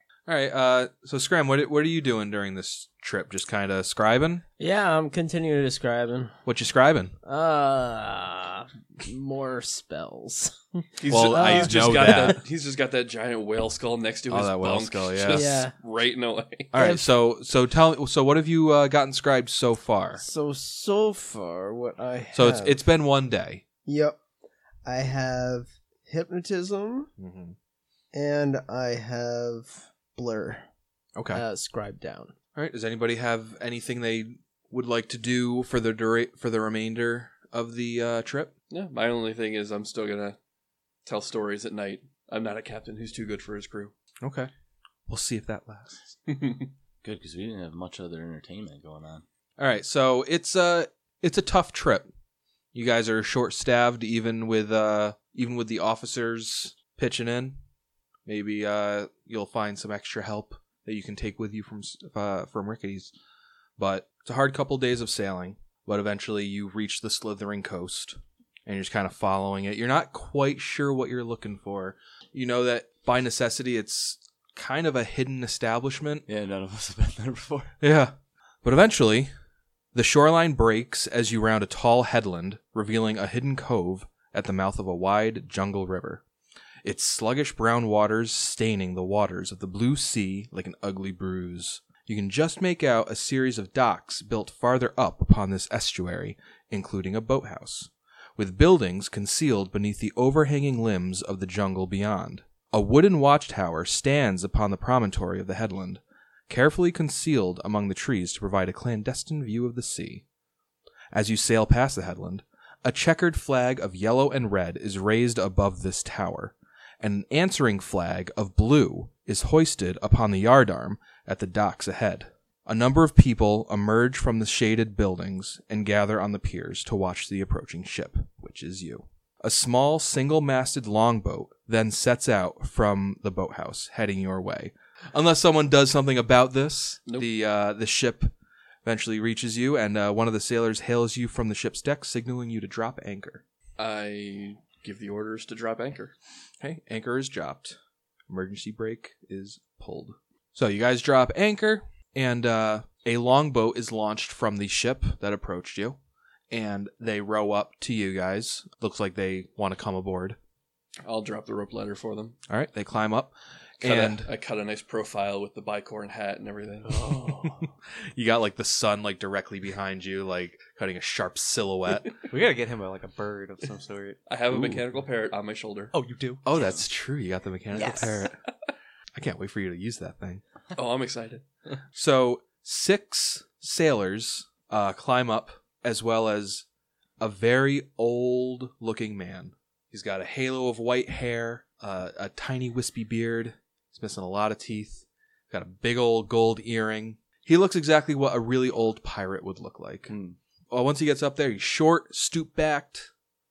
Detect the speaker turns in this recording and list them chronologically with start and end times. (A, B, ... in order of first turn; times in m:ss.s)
0:00.3-0:04.4 A
0:04.6-0:06.4 B
0:06.4-0:07.1 A
0:07.2-0:12.3 B
0:11.0-0:16.7 C
0:11.1-0:12.4 A
0:14.3-0:15.5 A
0:15.3-0:15.7 B
0:16.7-0:20.2 A
0:16.7-0:17.0 B
0:20.2-0:22.8 B
0:22.3-0:23.6 A
0:23.8-0:24.2 B
0:24.8-0:27.1 B
0:27.2-0:27.6 A
0:28.1-0:30.7 B
0:31.2-0:31.4 A
0:31.3-0:32.3 B
0:32.5-0:38.5 A
0:38.7-0:40.4 C
0:41.0-0:43.9 C
0:44.2-0:44.5 A
0:45.1-0:46.1 A
0:46.3-0:46.7 C
0:47.0-0:49.2 D
0:49.6-0:52.1 A
0:52.7-0:57.6 A
0:58.2-1:03.1 A
1:03.8-1:16.2 A
1:16.3-1:17.7 D
1:17.8-1:19.3 A
1:19.9-1:26.2 A
1:26.8-1:50.2 A
1:51.1-2:18.3 A
2:18.8-2:23.4 A
2:23.8-2:26.1 C
2:26.6-2:27.8 A
2:28.3-2:36.0 A
2:36.5-2:40.4 A
2:41.0-2:42.4 C
2:42.5-2:44.3 A
2:43.8-2:47.1 C
2:46.8-2:47.7 E
2:48.1-2:52.1 A
2:52.3-2:54.2 E
2:54.3-2:55.9 C
2:54.5-2:54.8 A
2:55.9-2:56.4 E
2:56.4-2:58.4 A
2:57.8-2:58.2 E
2:59.1-3:00.4 A
3:00.7-3:01.4 C
3:01.9-3:06.6 A
3:07.2-3:20.1 A
3:20.7-3:23.1 A